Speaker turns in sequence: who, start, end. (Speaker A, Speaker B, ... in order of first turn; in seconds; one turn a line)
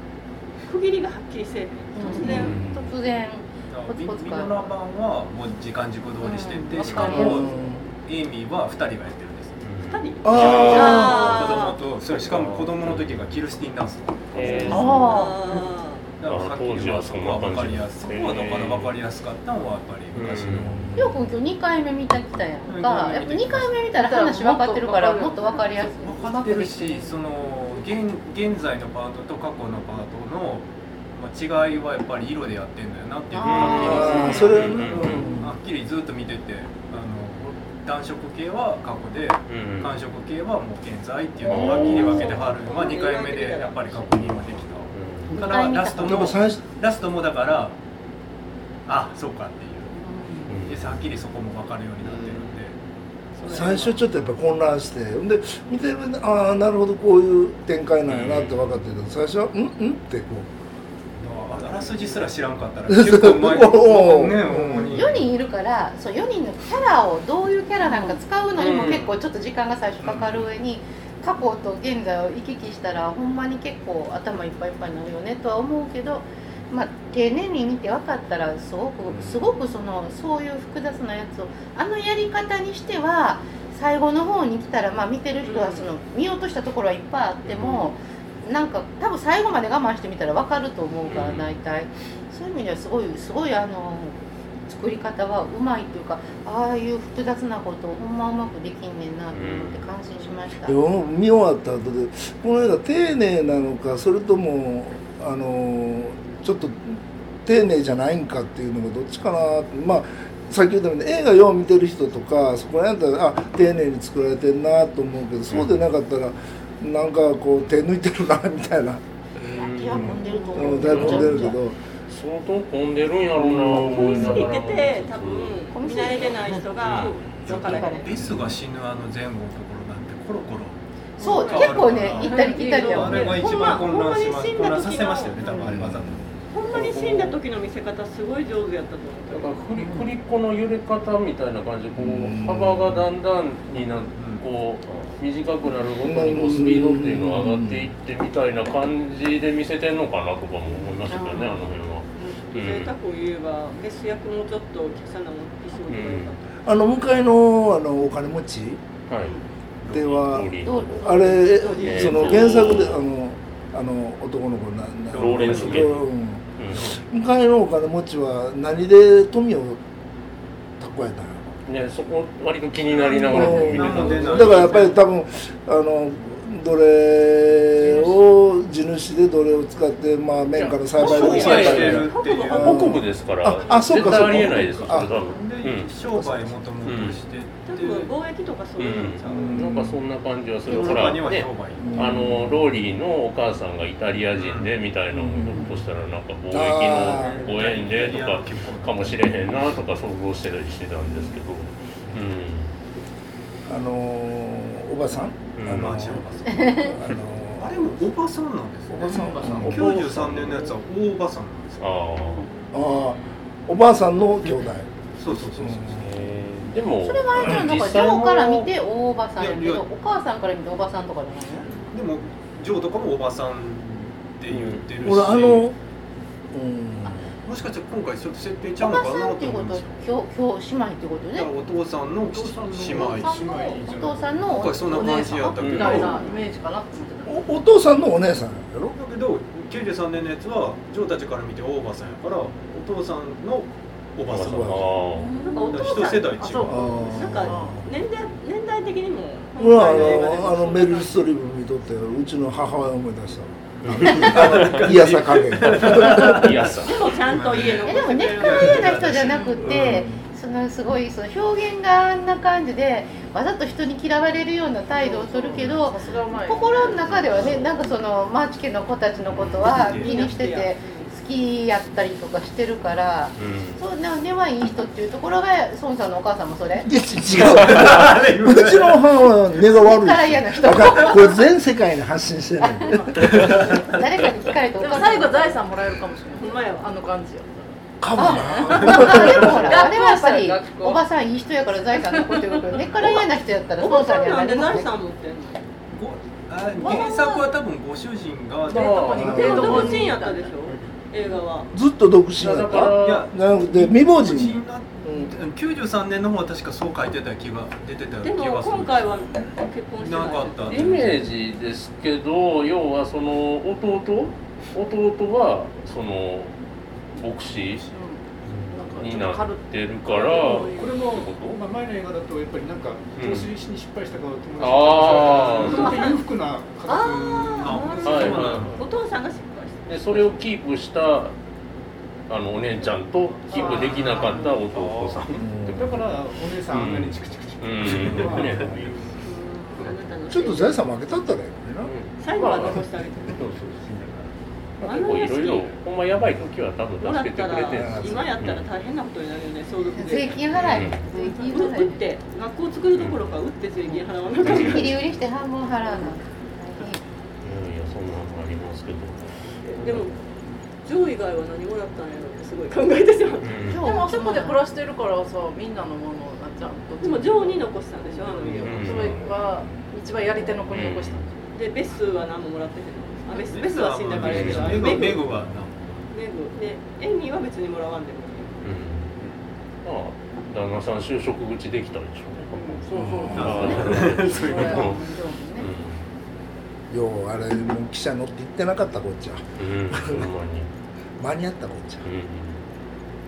Speaker A: 0.6-2.6
Speaker B: 1.9-4.7
Speaker C: 2.3-2.7
Speaker D: 2.3-2.6
Speaker E: 2.4-2.9
Speaker D: 3.7-7.5
Speaker B: 6.2-7.6
Speaker F: 6.8-7.5
Speaker E: 7.1-7.8
Speaker D: 8.0-9.6
Speaker C: 9.6-10.5
Speaker A: 9.8-11.8
Speaker E: 10.2-11.3
Speaker D: 10.3-14.9
Speaker B: 10.4-11.5
Speaker G: 12.3-12.7
Speaker G: 14.3-15.0
Speaker A: 14.4-16.0
Speaker B: 14.6-15.4
Speaker D: 16.2-20.8
Speaker C: 16.2-18.9
Speaker C: 20.1-20.8
Speaker E: 20.5-21.3
Speaker B: 20.9-27.2
Speaker D: 22.6-23.8
Speaker F: 23.9-25.9
Speaker D: 25.9-47.7
Speaker B: 33.4-34.5
Speaker F: 33.5-33.8
Speaker C: 33.5-35.3
Speaker E: 33.6-35.5
Speaker C: 39.5-40.0
Speaker C: 41.5-42.4
Speaker A: 41.6-44.4
Speaker C: 44.9-45.3
Speaker B: 45.3-46.4
Speaker E: 45.9-46.6
Speaker D: 48.9-49.9
Speaker B: 50.0-50.5
Speaker C: 50.5-50.8
Speaker D: 50.6-52.7
Speaker D: 53.3-54.0
Speaker E: 53.5-60.5
Speaker C: 58.1-58.7
Speaker D: 61.2-65.3
Speaker E: 62.9-65.0
Speaker B: 64.9-94.1
Speaker F: 67.8-68.2
Speaker C: 68.6-69.1
Speaker D: 70.0-70.5
Speaker D: 79.1-79.4
Speaker A: 85.4-85.9
Speaker C: 87.4-87.9
Speaker C: 91.1-91.5
Speaker B: 94.7-100.8
Speaker C: 99.3-99.8
Speaker E: 100.6-119.0
Speaker C: 119.4-121.5
Speaker B: 119.5-121.6
Speaker E: 119.9-121.8
Speaker C: 122.1-125.6
Speaker E: 123.4-124.5
Speaker A: 123.7-128.1
Speaker B: 125.7-126.7
Speaker C: 126.8-127.1
Speaker D: 126.9-130.8
Speaker B: 127.5-128.1
Speaker B: 131.2-133.6
Speaker F: 131.2-131.5
Speaker A: 131.2-131.8
Speaker D: 131.3-136.2
Speaker F: 132.1-133.7
Speaker A: 132.7-135.4
Speaker B: 135.4-135.7
Speaker E: 135.6-136.3
Speaker A: 136.5-139.5
Speaker C: 136.7-137.3
Speaker C: 139.3-152.9
Speaker B: 139.8-140.1
Speaker E: 142.0-143.0
Speaker D: 144.2-144.4
Speaker E: 146.0-147.9
Speaker B: 151.1-151.7
Speaker A: 152.4-156.5
Speaker C: 155.9-156.3
Speaker E: 156.6-158.8
Speaker C: 159.1-159.3
Speaker D: 159.8-160.2
Speaker E: 159.9-169.8
Speaker C: 160.0-161.1
Speaker B: 160.6-162.1
Speaker A: 161.6-162.3
Speaker C: 161.8-163.0
Speaker D: 165.1-166.0
Speaker C: 165.1-166.0
Speaker C: 166.6-166.8
Speaker E: 170.8-171.4
Speaker C: 171.7-174.9
Speaker D: 172.9-175.0
Speaker E: 173.3-185.1
Speaker C: 180.5-185.9
Speaker D: 180.9-182.9
Speaker A: 181.1-182.9
Speaker A: 183.6-183.9
Speaker D: 183.9-184.5
Speaker D: 185.0-188.1
Speaker E: 186.1-186.6
Speaker C: 186.8-187.2
Speaker A: 187.7-189.5
Speaker C: 188.8-202.7
Speaker D: 189.2-189.8
Speaker E: 189.3-189.9
Speaker D: 190.7-192.2
Speaker E: 191.8-192.7
Speaker D: 194.3-194.7
Speaker E: 195.1-195.9
Speaker E: 196.5-197.4
Speaker D: 197.1-199.4
Speaker E: 203.7-207.9
Speaker C: 205.6-206.0
Speaker D: 205.7-207.0
Speaker B: 206.6-206.9
Speaker D: 207.6-212.1
Speaker E: 208.9-210.0
Speaker F: 209.1-209.9
Speaker C: 210.0-210.4
Speaker C: 211.8-212.4
Speaker A: 212.4-213.1
Speaker E: 212.7-216.2
Speaker D: 215.2-216.0
Speaker G: 216.0-216.7
Speaker C: 216.6-218.7
Speaker B: 217.0-221.8
Speaker E: 217.3-217.8
Speaker D: 219.3-219.8
Speaker D: 221.9-225.7
Speaker E: 225.0-225.7
Speaker E: 226.5-227.2
Speaker D: 227.4-230.0
Speaker B: 228.8-231.5
Speaker D: 231.3-233.8
Speaker F: 232.7-233.8
Speaker H: 232.7-234.5
Speaker B: 232.8-236.4
Speaker D: 234.4-236.3
Speaker F: 234.7-237.6
Speaker C: 235.6-236.0
Speaker E: 237.2-238.9
Speaker D: 238.8-244.8
Speaker C: 244.3-245.3
Speaker E: 244.3-244.8
Speaker F: 245.1-247.8
Speaker A: 245.4-251.3
Speaker D: 245.7-246.9
Speaker E: 246.7-247.8
Speaker E: 249.6-256.5
Speaker C: 253.8-254.3
Speaker D: 253.9-256.7
Speaker C: 256.0-257.1
Speaker A: 256.8-259.0
Speaker D: 257.2-259.9
Speaker B: 257.8-276.9
Speaker F: 259.3-259.6
Speaker E: 259.6-260.2
Speaker F: 264.9-267.6
Speaker D: 269.6-270.4
Speaker A: 269.9-271.1
Speaker C: 273.4-273.8
Speaker E: 276.8-283.7
Speaker D: 277.3-279.0
Speaker B: 279.6-281.5
Speaker B: 282.6-285.6
Speaker D: 283.3-283.8
Speaker F: 284.7-291.0
Speaker A: 286.3-286.9
Speaker E: 288.0-289.8
Speaker B: 288.1-294.9
Speaker F: 292.0-292.9
Speaker A: 293.0-293.3
Speaker A: 293.8-295.7
Speaker D: 295.9-299.9
Speaker F: 296.7-297.6
Speaker F: 298.6-300.6
Speaker C: 298.7-299.4
Speaker E: 299.2-300.0
Speaker A: 299.2-301.7
Speaker E: 301.7-305.3
Speaker C: 302.4-303.3
Speaker D: 302.8-309.2
Speaker A: 308.2-311.1
Speaker D: 310.0-311.2
Speaker C: 310.7-316.5
Speaker C: 317.1-317.9
Speaker F: 317.9-320.9
Speaker C: 319.0-321.6
Speaker H: 320.4-328.5
Speaker C: 323.2-323.5
Speaker C: 324.6-326.0
Speaker D: 325.1-325.9
Speaker A: 325.6-326.2
Speaker F: 326.9-328.1
Speaker A: 326.9-330.4
Speaker D: 327.4-328.8
Speaker C: 328.0-328.8
Speaker C: 329.9-331.3
Speaker C: 332.3-335.8
Speaker F: 333.5-334.5
Speaker H: 333.6-334.3
Speaker G: 334.7-335.2
Speaker E: 335.3-335.9
Speaker H: 335.6-339.3
Speaker C: 336.7-338.8
Speaker D: 337.9-338.7
Speaker A: 339.2-340.8
Speaker E: 340.3-341.9
Speaker C: 341.8-348.7
Speaker A: 342.2-343.5
Speaker A: 344.8-345.8
Speaker A: 347.0-355.0
Speaker E: 347.7-348.3
Speaker B: 349.9-352.0
Speaker C: 350.5-351.0
Speaker B: 353.9-357.0
Speaker C: 354.4-354.9
Speaker C: 357.4-359.3
Speaker A: 359.6-360.1
Speaker A: 360.8-363.7
Speaker C: 363.4-363.8
Speaker B: 363.7-364.6
Speaker F: 363.7-371.3
Speaker A: 367.0-369.3
Speaker C: 368.6-369.4
Speaker C: 370.7-371.2
Speaker A: 371.5-375.3
Speaker D: 373.3-376.1
Speaker C: 374.2-375.5
Speaker A: 376.1-378.6
Speaker C: 378.6-379.1
Speaker C: 379.8-385.0
Speaker F: 382.5-385.0
Speaker E: 382.9-383.7
Speaker D: 383.3-384.9
Speaker B: 383.5-385.7
Speaker C: 385.6-386.0
Speaker E: 386.9-390.3
Speaker C: 389.6-390.7
Speaker E: 391.2-392.1
Speaker C: 392.0-392.6